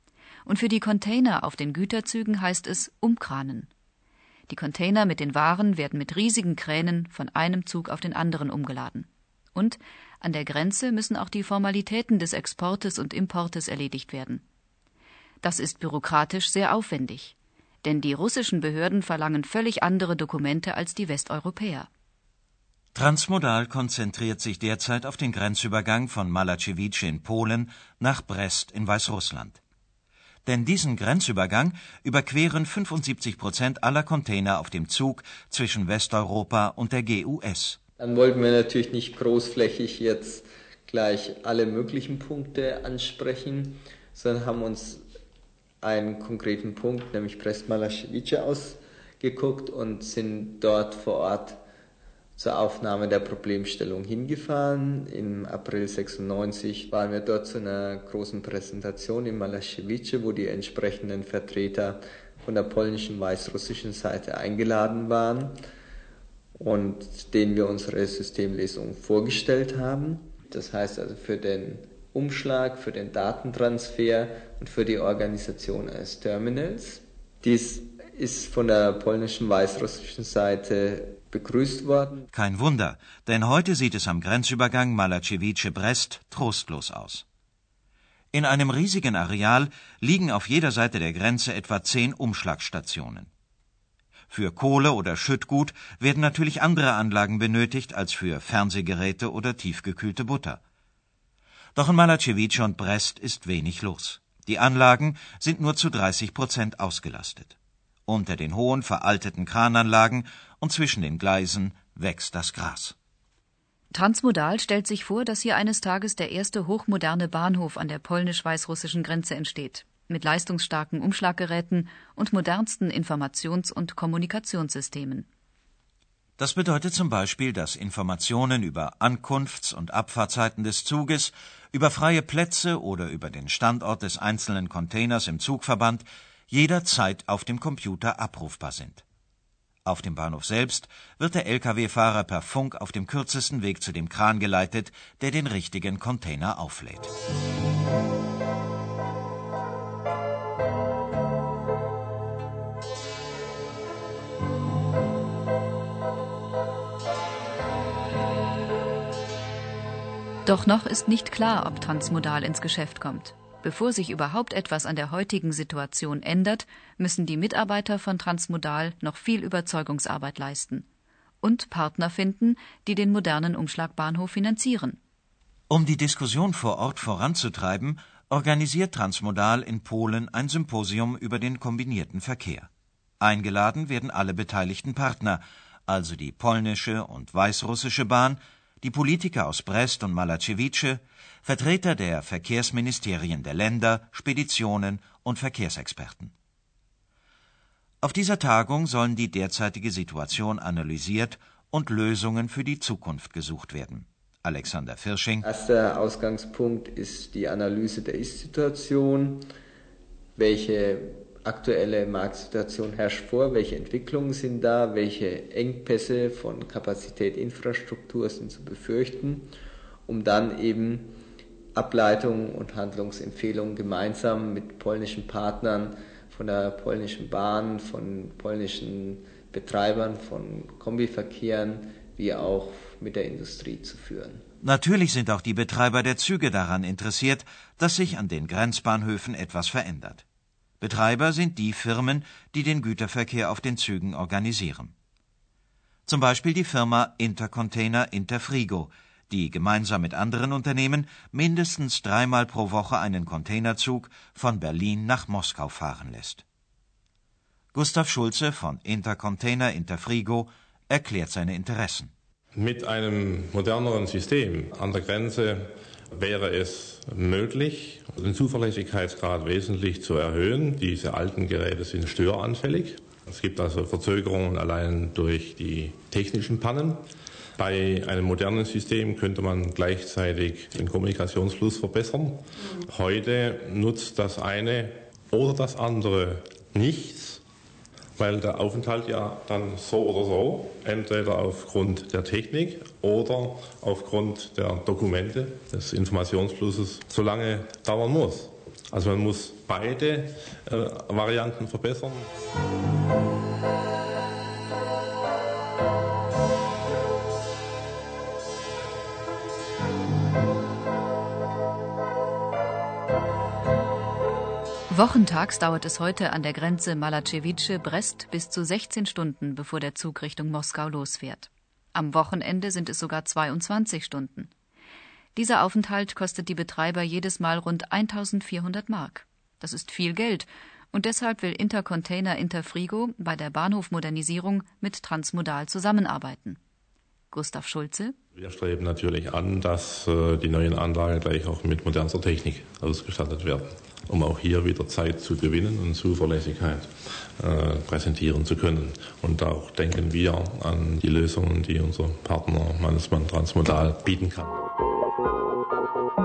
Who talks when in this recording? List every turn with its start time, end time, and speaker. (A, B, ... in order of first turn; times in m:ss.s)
0:00.5-0:03.7 A
0:04.5-0:14.4 A
0:15.4-0:21.9 A
0:22.9-0:29.6 B
0:30.4-0:37.8 B
0:38.0-0:45.0 C
0:45.8-0:51.6 C
0:52.4-1:05.6 C
1:06.6-1:22.3 C
1:22.3-1:27.2 B
1:28.3-1:33.3 B
1:34.3-1:40.6 B
1:41.8-1:47.6 B
1:48.1-1:53.0 B
1:53.9-2:05.3 A
2:06.4-2:19.0 B
2:19.8-2:27.1 B
2:40.5-2:50.9 A
2:51.4-2:55.0 A
2:55.7-3:02.7 B
3:03.2-3:16.3 B
3:18.0-3:25.5 B
3:25.4-3:29.4 C
3:30.4-3:39.5 C
3:40.1-3:41.2 C
3:41.8-3:54.4 C
3:54.6-4:00.2 B
4:00.8-4:04.9 B
4:06.1-4:16.4 B
4:17.7-4:22.1 B
4:22.6-4:37.0 D
4:37.6-4:47.4 D
4:48.2-5:02.3 D
5:14.9-5:24.5 A
5:25.4-5:36.6 A
5:37.3-5:38.2 A
5:38.4-5:54.6 D